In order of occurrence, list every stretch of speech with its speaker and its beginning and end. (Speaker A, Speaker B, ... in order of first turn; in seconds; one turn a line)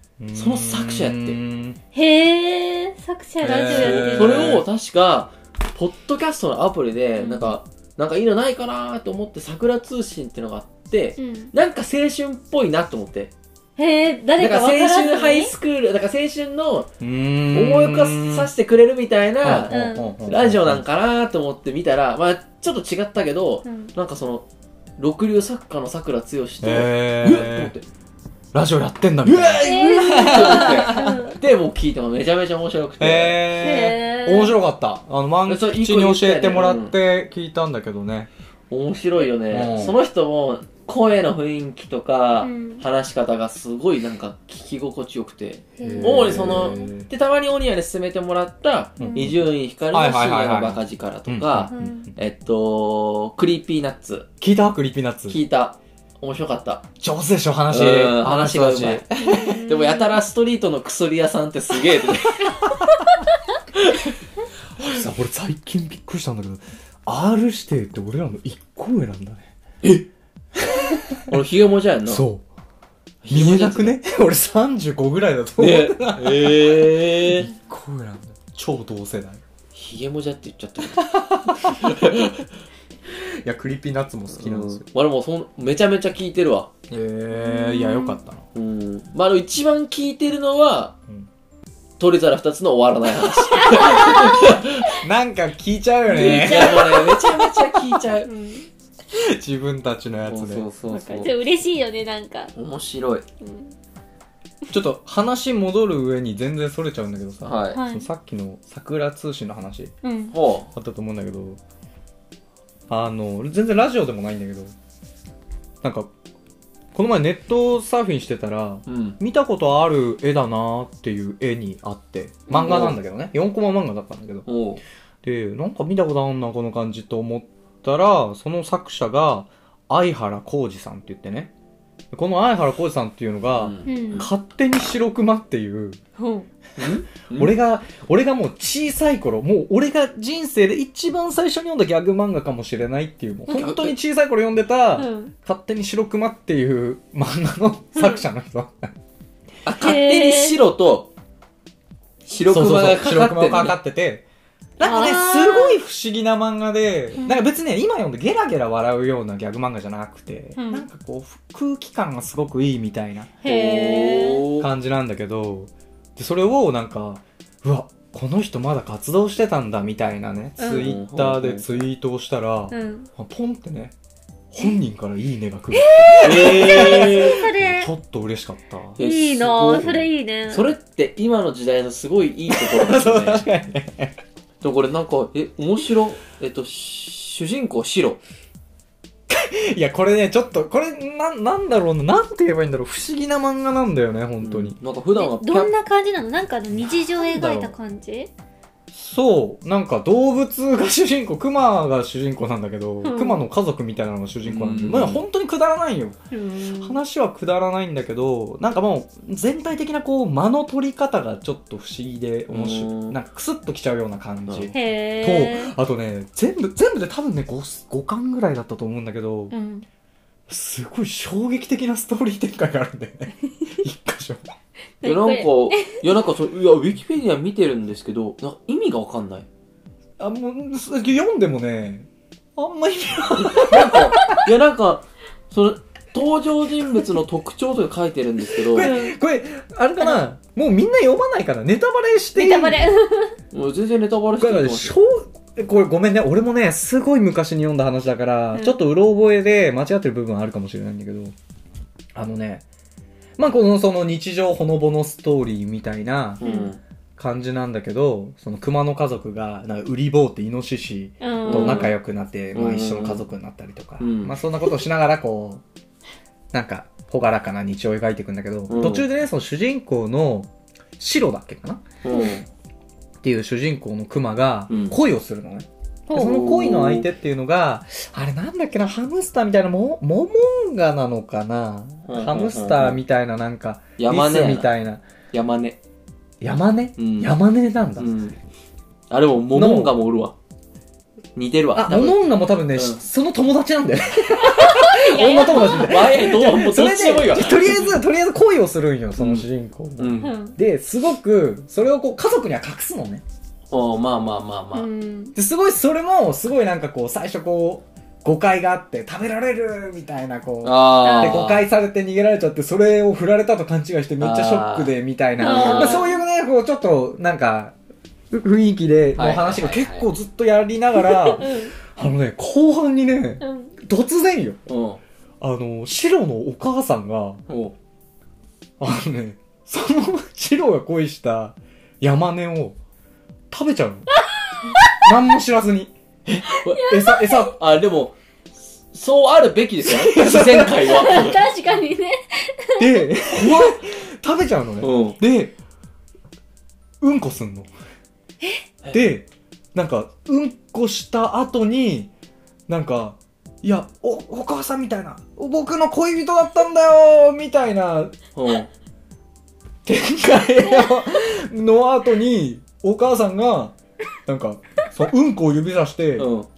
Speaker A: 0.2-1.8
Speaker B: 0.3-1.4
Speaker C: 1.9-4.6
Speaker A: 3.4-4.6
Speaker B: 3.7-13.3
Speaker C: 7.2-7.5
Speaker C: 11.2-11.5
Speaker C: 13.8-15.5
Speaker B: 14.4-16.9
Speaker A: 17.0-18.5
Speaker B: 17.5-19.7
Speaker A: 19.4-20.8
Speaker C: 19.7-20.1
Speaker B: 20.2-24.4
Speaker C: 23.6-23.9
Speaker B: 25.0-27.9
Speaker A: 26.6-27.7
Speaker A: 28.5-31.2
Speaker B: 29.2-33.5
Speaker C: 29.6-31.4
Speaker A: 33.0-38.3
Speaker C: 33.6-34.6
Speaker B: 35.5-36.9
Speaker B: 38.7-54.3
Speaker A: 39.5-40.0
Speaker C: 42.4-42.8
Speaker C: 45.8-46.9
Speaker A: 45.8-47.1
Speaker A: 49.0-52.1
Speaker C: 49.0-49.3
Speaker C: 51.7-52.1
Speaker A: 54.4-55.4
Speaker B: 55.3-56.8
Speaker A: 57.0-59.6
Speaker B: 57.7-59.0
Speaker C: 59.2-60.2
Speaker B: 59.6-62.5
Speaker A: 64.8-69.5
Speaker A: 70.6-71.4
Speaker B: 71.3-72.2
Speaker A: 72.1-72.4
Speaker B: 73.2-74.0
Speaker A: 73.3-79.4
Speaker B: 75.6-77.5
Speaker B: 79.7-82.3
Speaker A: 80.9-82.2
Speaker A: 83.1-84.8
Speaker B: 84.3-86.7
Speaker A: 86.9-88.4
Speaker C: 87.3-88.2
Speaker B: 88.5-91.0
Speaker B: 92.0-94.8
Speaker C: 93.5-94.5
Speaker A: 93.8-97.1
Speaker B: 96.1-98.3
Speaker C: 96.1-97.6
Speaker C: 98.2-98.7
Speaker A: 99.1-100.7
Speaker B: 100.2-101.3
Speaker C: 100.9-102.5
Speaker B: 102.5-103.2
Speaker C: 103.4-103.7
Speaker A: 104.7-109.9
Speaker B: 107.4-107.8
Speaker C: 107.7-108.1
Speaker C: 110.0-110.3
Speaker B: 110.3-110.7
Speaker A: 110.7-111.6
Speaker A: 112.9-114.7
Speaker A: 115.8-116.1
Speaker A: 116.9-124.5
Speaker B: 118.9-119.2
Speaker B: 122.5-123.0
Speaker B: 124.5-124.8
Speaker A: 125.2-131.5
Speaker A: 132.1-136.0
Speaker B: 133.5-134.3
Speaker C: 133.8-134.3
Speaker C: 136.2-136.5
Speaker B: 136.8-137.5
Speaker A: 137.3-148.9
Speaker B: 143.5-143.9
Speaker C: 144.9-145.3
Speaker C: 147.9-148.2
Speaker B: 149.6-151.1
Speaker C: 149.8-150.6
Speaker B: 152.3-153.8
Speaker A: 152.5-154.2
Speaker A: 154.8-163.3
Speaker C: 154.8-155.8
Speaker C: 160.6-160.8
Speaker C: 163.4-164.4
Speaker B: 163.4-164.7
Speaker A: 164.6-173.9
Speaker C: 170.6-170.9
Speaker B: 170.6-171.8
Speaker C: 172.7-173.1
Speaker A: 174.5-179.0
Speaker C: 175.7-177.9
Speaker B: 176.2-177.4
Speaker B: 178.9-183.5
Speaker C: 179.0-180.7
Speaker A: 182.5-184.2
Speaker B: 184.6-188.2
Speaker A: 189.3-194.8
Speaker B: 194.4-195.7
Speaker C: 195.2-198.3
Speaker A: 196.7-197.7
Speaker A: 198.9-206.2
Speaker C: 203.0-203.4
Speaker B: 204.4-205.2
Speaker C: 206.3-207.0
Speaker A: 206.8-219.5
Speaker B: 212.5-213.2
Speaker B: 214.5-214.7
Speaker C: 214.7-215.7
Speaker C: 219.5-219.8
Speaker A: 220.5-224.4
Speaker C: 225.0-226.0
Speaker B: 225.0-229.4
Speaker A: 230.2-234.3
Speaker B: 233.6-238.9
Speaker A: 238.6-242.9
Speaker C: 238.8-239.2
Speaker C: 242.3-243.3
Speaker B: 243.5-244.9
Speaker A: 244.4-251.3
Speaker A: 252.2-252.6
Speaker A: 253.4-256.4
Speaker B: 256.4-256.8
Speaker C: 256.4-256.7
Speaker A: 257.2-265.6
Speaker C: 261.2-261.9
Speaker B: 261.4-261.9
Speaker B: 262.5-263.2
Speaker B: 264.0-264.3
Speaker A: 266.5-271.8
Speaker B: 268.7-269.1
Speaker B: 272.0-272.4
Speaker A: 273.2-285.0
Speaker B: 274.7-274.9
Speaker C: 276.1-276.5
Speaker B: 276.2-277.1
Speaker B: 282.1-283.0
Speaker B: 284.0-284.7
Speaker B: 285.3-285.8
Speaker A: 286.4-288.1
Speaker B: 287.0-287.3
Speaker B: 288.0-288.4
Speaker B: 289.1-290.3
Speaker A: 289.5-289.9
Speaker B: 291.4-292.2
Speaker A: 291.7-303.2
Speaker B: 292.7-293.0
Speaker C: 294.4-296.1
Speaker B: 295.5-297.9
Speaker B: 299.2-299.5
Speaker B: 300.0-300.3
Speaker C: 300.2-300.6
Speaker B: 303.7-304.9
Speaker C: 304.7-305.4
Speaker A: 305.3-317.7
Speaker B: 310.6-311.6
Speaker C: 311.0-311.5
Speaker B: 314.2-316.0
Speaker C: 315.4-316.2
Speaker A: 318.3-324.6
Speaker B: 319.1-320.1
Speaker C: 321.2-321.7
Speaker C: 323.4-323.7
Speaker B: 324.7-325.0
Speaker A: 325.4-327.4
Speaker B: 327.5-327.7
Speaker A: 328.8-332.8
Speaker A: 333.5-334.1
Speaker C: 334.4-335.0
Speaker A: 335.0-335.9
Speaker B: 336.3-338.2
Speaker C: 336.5-337.4
Speaker A: 336.8-337.6
Speaker B: 338.9-341.4
Speaker A: 339.9-340.8
Speaker C: 340.6-343.7
Speaker A: 342.8-345.6
Speaker B: 344.8-345.2
Speaker A: 347.0-347.7
Speaker A: 348.9-352.1
Speaker A: 352.7-358.1
Speaker B: 358.3-358.7
Speaker A: 359.8-366.3
Speaker B: 366.2-366.5